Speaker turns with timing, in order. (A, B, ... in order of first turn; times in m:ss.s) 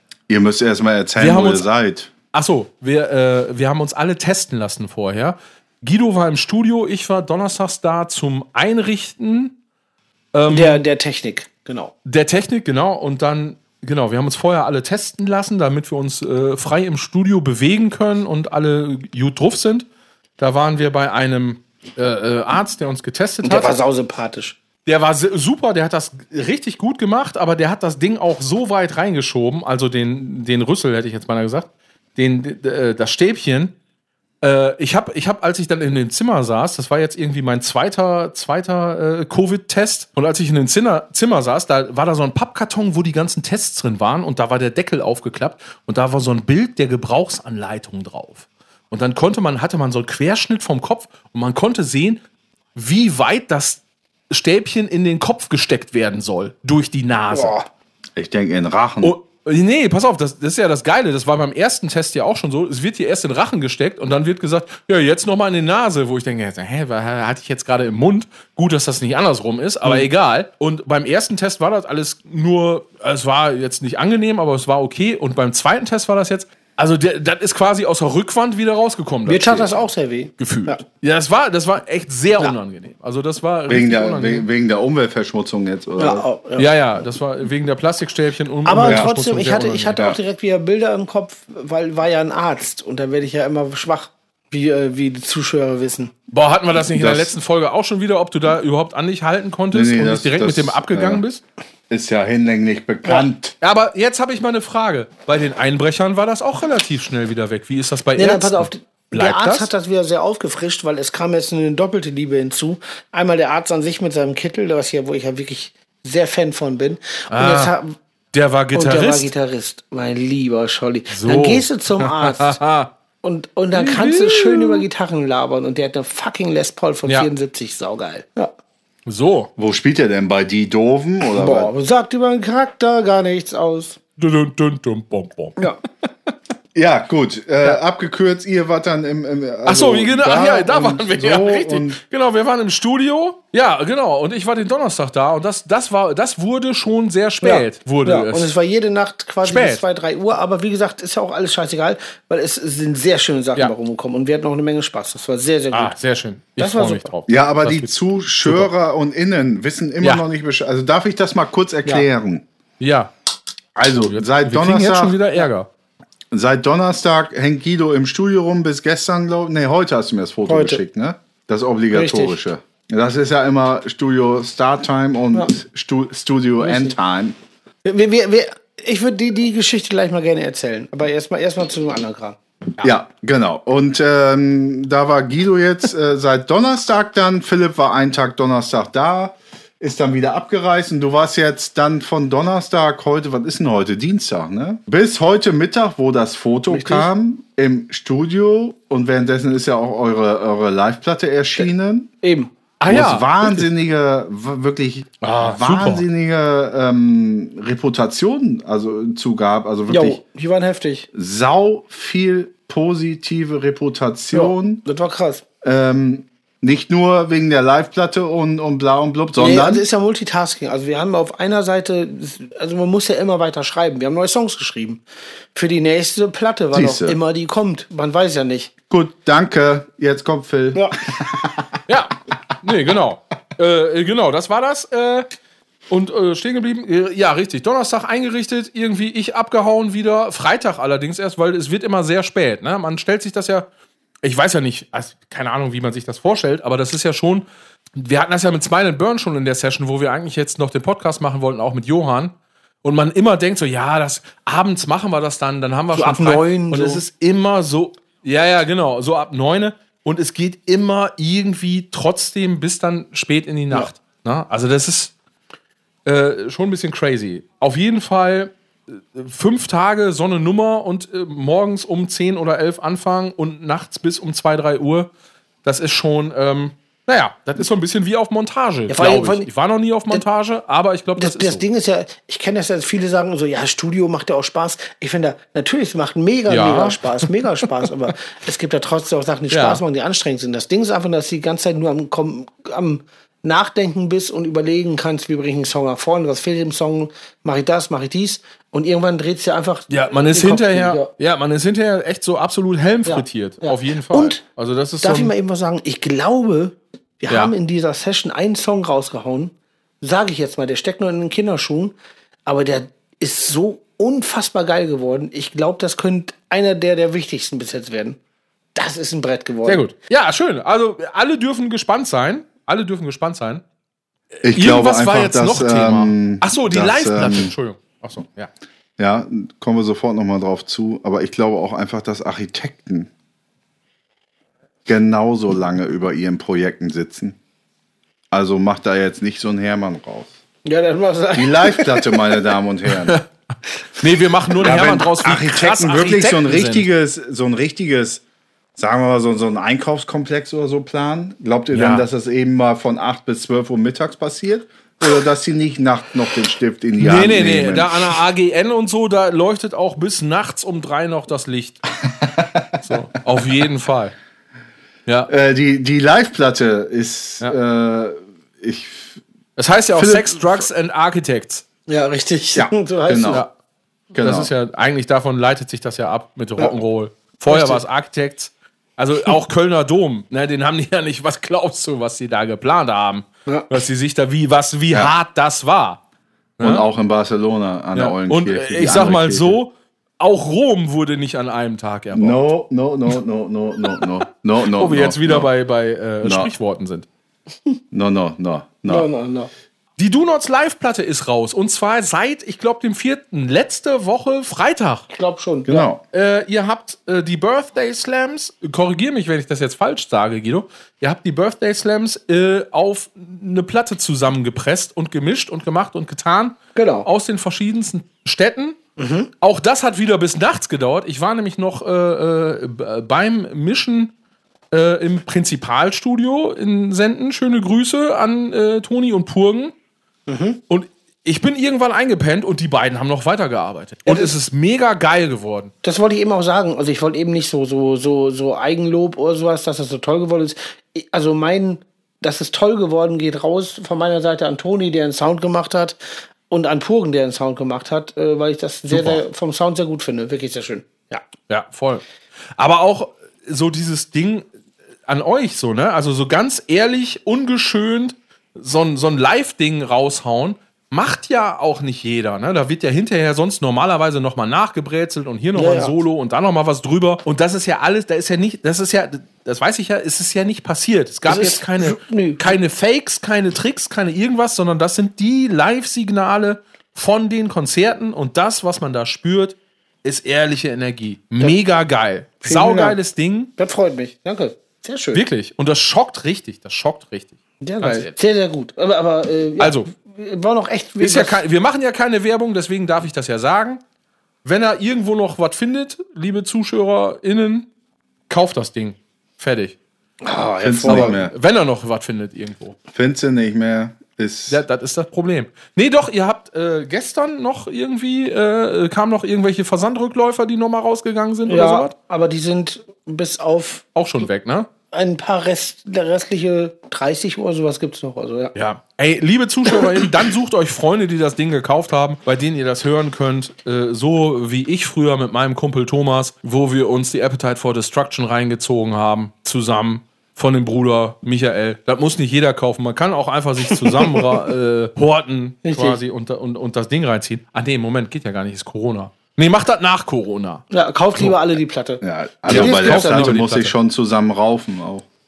0:00.3-0:02.1 A
0:01.2-0:01.7 B
0:02.3-0:09.5 B
0:10.3-0:10.8 B
0:10.5-0:11.9 C
0:12.0-0:19.9 B
0:20.4-0:23.8 B
0:23.4-0:24.6 C
0:24.9-0:33.7 B
0:34.4-0:52.2 B
0:52.8-0:57.6 B
0:57.3-0:57.7 C
0:58.2-0:59.2 A
0:59.0-1:19.9 B
1:19.3-1:20.8 C
1:20.4-1:24.5 B
1:23.7-1:26.3 A
1:26.0-1:26.7 C
1:26.6-1:30.1 B
1:28.6-1:36.1 C
1:36.3-1:41.4 B
1:36.9-1:37.4 A
1:39.7-1:41.2 A
1:41.9-1:43.5 A
1:43.1-1:49.7 B
1:48.2-1:58.0 C
1:57.3-1:57.7 B
1:58.3-1:59.3 B
1:58.7-2:02.6 C
2:01.1-2:02.9 B
2:03.2-2:08.5 C
2:03.7-2:04.8 B
2:09.1-2:09.5 B
2:09.6-2:11.7 A
2:11.3-2:14.0 C
2:14.2-2:15.6 B
2:16.8-2:22.0 A
2:19.7-2:28.5 B
2:27.4-2:35.9 C
2:29.4-2:29.8 B
2:35.7-2:38.7 B
2:36.6-2:37.1 C
2:37.3-2:42.4 A
2:42.8-2:43.1 B
2:43.8-2:45.2 A
2:43.9-2:45.7 B
2:46.3-2:57.4 A
2:50.5-2:50.8 C
2:51.9-2:52.4 C
2:56.6-2:57.0 C
2:57.8-3:02.4 C
3:02.8-3:22.1 A
3:16.7-3:17.1 C
3:22.2-3:22.5 C
3:22.8-3:23.7 B
3:22.9-3:30.2 A
3:25.2-3:26.0 B
3:29.9-3:31.1 C
3:31.1-3:34.8 A
3:34.3-3:35.4 C
3:35.6-3:39.8 A
3:39.4-3:45.0 C
3:45.5-3:48.7 C
3:46.7-3:47.2 A
3:48.9-3:51.7 A
3:51.9-3:55.3 B
3:55.9-4:03.7 B
4:04.2-4:12.3 B
4:12.8-4:25.1 B
4:15.9-4:17.0 C
4:26.1-4:35.1 B
4:35.6-4:41.6 B
4:38.9-4:39.5 C
4:41.2-5:01.1 C
4:46.5-4:47.3 B
4:49.5-4:49.8 B
4:59.9-5:05.3 B
5:03.0-5:04.4 C
5:05.0-5:12.0 C
5:12.5-5:18.2 C
5:18.8-5:19.8 C
5:19.7-5:23.6 B
5:24.4-5:27.5 A
5:24.5-5:28.5 B
5:29.0-5:33.1 A
5:34.9-5:37.4 A
5:38.3-5:40.4 A
5:40.6-5:42.1 C
5:41.3-5:43.2 A
5:44.0-5:46.9 B
5:44.6-5:48.2 A
5:48.8-5:58.2 A
5:51.7-5:52.0 B
5:57.0-6:01.8 B
6:02.3-6:02.6 A
6:02.8-6:04.2 B
6:05.3-6:09.2 A
6:09.6-6:11.6 B
6:09.9-6:10.6 A
6:11.9-6:13.4 C
6:12.5-6:13.4 A
6:14.1-6:14.5 A
6:14.2-6:26.0 B
6:17.5-6:17.8 C
6:26.6-6:26.9 B
6:26.6-6:29.6 A
6:28.0-6:32.5 B
6:32.1-6:35.5 A
6:34.7-6:37.1 B
6:36.2-6:36.5 A
6:37.9-6:39.1 A
6:38.9-6:39.5 C
6:40.0-6:45.1 B
6:45.1-6:45.9 C
6:45.7-6:46.0 A
6:46.1-6:58.8 B
6:56.8-6:57.1 C
6:59.0-6:59.3 C
6:59.4-7:04.1 B
7:04.7-7:09.7 B
7:10.3-7:10.6 C
7:10.7-7:15.7 B
7:14.1-7:14.3 C
7:15.8-7:31.2 C
7:28.9-7:29.2 B
7:31.5-7:32.0 B
7:32.6-7:34.5 B
7:35.1-8:03.5 B
7:45.6-7:46.0 C
7:51.3-7:52.6 C
8:02.4-8:03.0 C
8:03.6-8:05.2 C
8:05.1-8:08.1 B
8:07.6-8:11.4 C
8:09.6-8:09.9 B
8:11.0-8:13.8 B
8:14.4-8:17.7 B
8:18.3-8:19.8 B
8:20.2-8:21.2 C
8:20.6-8:21.3 A
8:20.9-8:22.8 B
8:22.9-8:24.6 A
8:24.5-8:31.9 B
8:31.5-8:33.8 C
8:34.0-8:34.7 B
8:34.9-8:38.5 C
8:38.6-9:00.6 B
8:53.7-8:54.4 C
8:55.6-8:56.0 C
9:00.7-9:03.4 C
9:02.0-9:05.0 A
9:02.5-9:03.7 B